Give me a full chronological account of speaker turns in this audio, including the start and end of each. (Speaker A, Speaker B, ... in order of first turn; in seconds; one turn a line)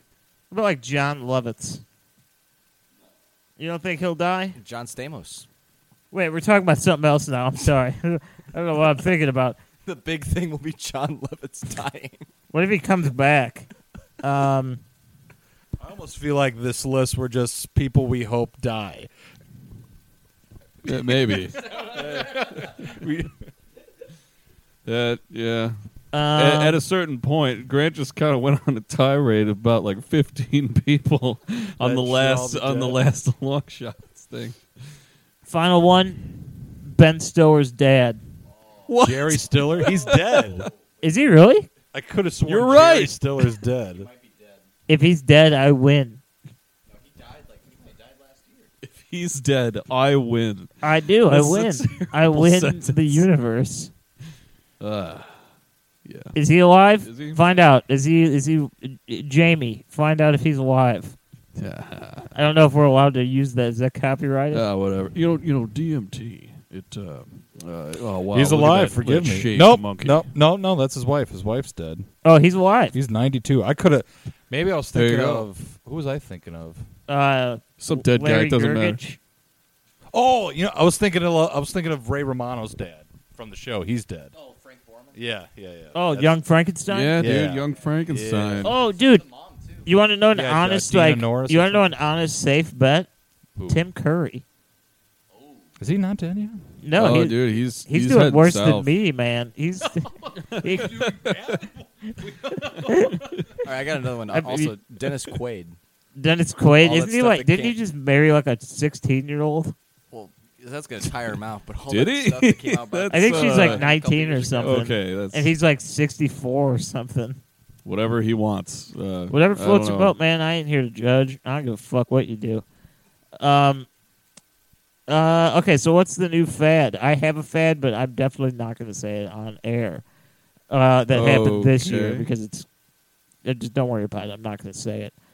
Speaker A: 0.5-1.8
Speaker A: 3.6-4.6
Speaker B: 4.6-5.5
Speaker A: 6.1-9.6
Speaker B: 9.8-12.3
Speaker A: 12.5-13.7
Speaker A: 14.2-14.8
Speaker C: 15.8-19.1
Speaker D: 20.8-21.7
Speaker C: 21.2-23.3
Speaker D: 24.8-25.7
Speaker A: 26.1-26.8
Speaker D: 26.3-34.6
Speaker C: 31.8-33.0
Speaker A: 35.5-38.2
Speaker D: 38.9-40.4
Speaker C: 39.0-40.7
Speaker A: 41.0-41.7
Speaker C: 41.9-44.1
Speaker D: 42.5-43.2
Speaker B: 44.0-44.6
Speaker A: 44.9-46.2
Speaker B: 46.9-48.8
Speaker D: 48.8-50.7
Speaker A: 50.8-53.9
Speaker D: 51.3-53.2
Speaker D: 54.8-55.3
Speaker D: 56.0-56.3
Speaker A: 56.3-61.1
Speaker D: 57.0-57.4
Speaker D: 61.5-62.3
Speaker A: 62.3-64.7
Speaker D: 64.5-70.2
Speaker C: 68.3-72.1
Speaker A: 72.2-73.0
Speaker C: 72.9-76.8
Speaker D: 74.9-75.5
Speaker A: 77.1-79.2
Speaker D: 77.8-79.0
Speaker C: 80.1-84.3
Speaker B: 84.4-85.1
Speaker C: 85.1-86.4
Speaker A: 85.9-87.2
Speaker D: 86.9-88.7
Speaker C: 87.2-88.7
Speaker A: 88.6-89.2
Speaker B: 89.1-89.8
Speaker A: 89.8-93.1
Speaker C: 90.3-91.9
Speaker C: 93.5-93.8
Speaker A: 93.7-94.4
Speaker C: 95.8-96.6
Speaker A: 96.8-100.9
Speaker D: 96.9-98.9
Speaker D: 100.7-101.4
Speaker C: 100.7-103.0
Speaker A: 102.8-103.2
Speaker B: 103.6-105.8
Speaker A: 104.3-104.7
Speaker A: 106.1-109.7
Speaker B: 106.8-107.8
Speaker B: 110.1-114.9
Speaker D: 111.9-113.9
Speaker A: 113.1-117.4
Speaker D: 114.6-115.5
Speaker D: 117.8-120.1
Speaker A: 119.3-122.6
Speaker A: 123.4-123.9
Speaker A: 125.1-130.0
Speaker A: 130.7-132.7
Speaker D: 131.1-132.3
Speaker A: 133.4-135.1